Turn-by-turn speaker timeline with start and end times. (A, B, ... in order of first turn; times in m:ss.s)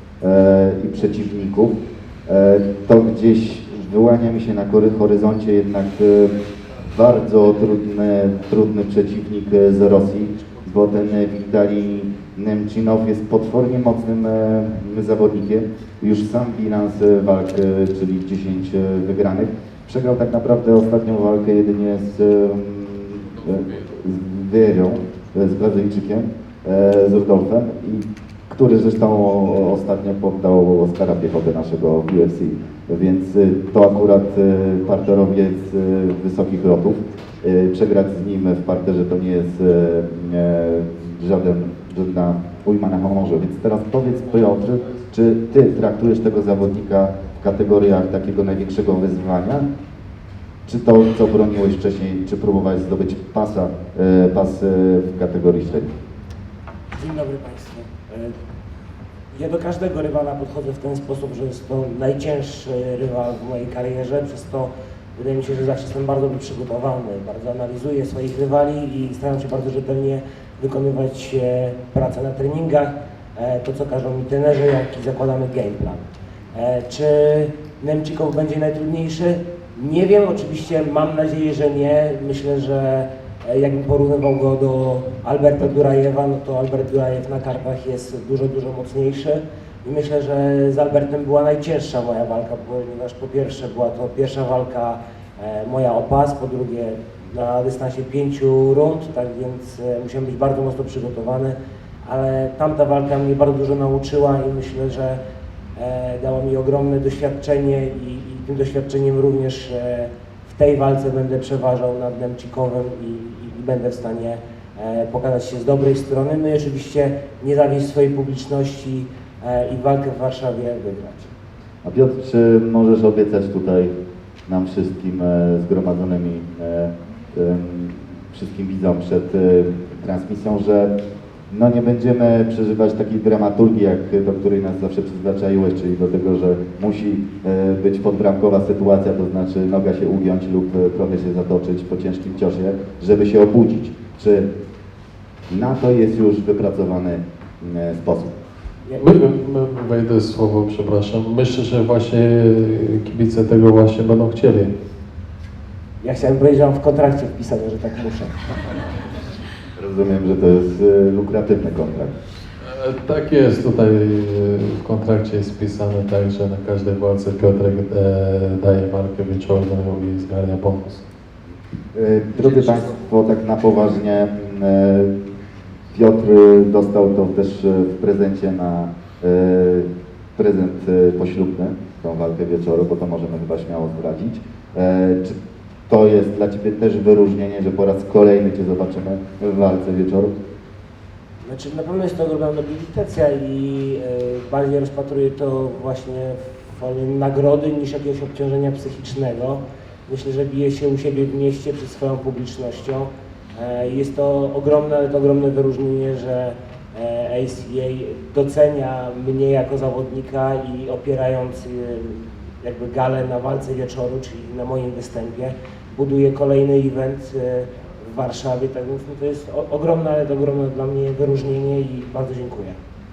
0:00.2-0:01.8 A
0:02.3-0:06.4 A
0:06.9-0:49.6 A
0:50.6-0:55.9 A
0:57.0-0:58.4 B
0:59.3-1:45.2 B
1:45.8-2:01.3 B
2:01.8-2:03.9 A
2:04.5-2:10.9 A
2:11.5-2:24.5 A
2:25.5-2:28.4 A
2:29.0-2:34.7 C
2:36.0-2:38.3 B
2:39.8-2:42.1 A
2:42.6-2:51.0 C
2:51.9-2:55.1 A
2:55.9-3:10.3 A
3:11.4-3:42.8 B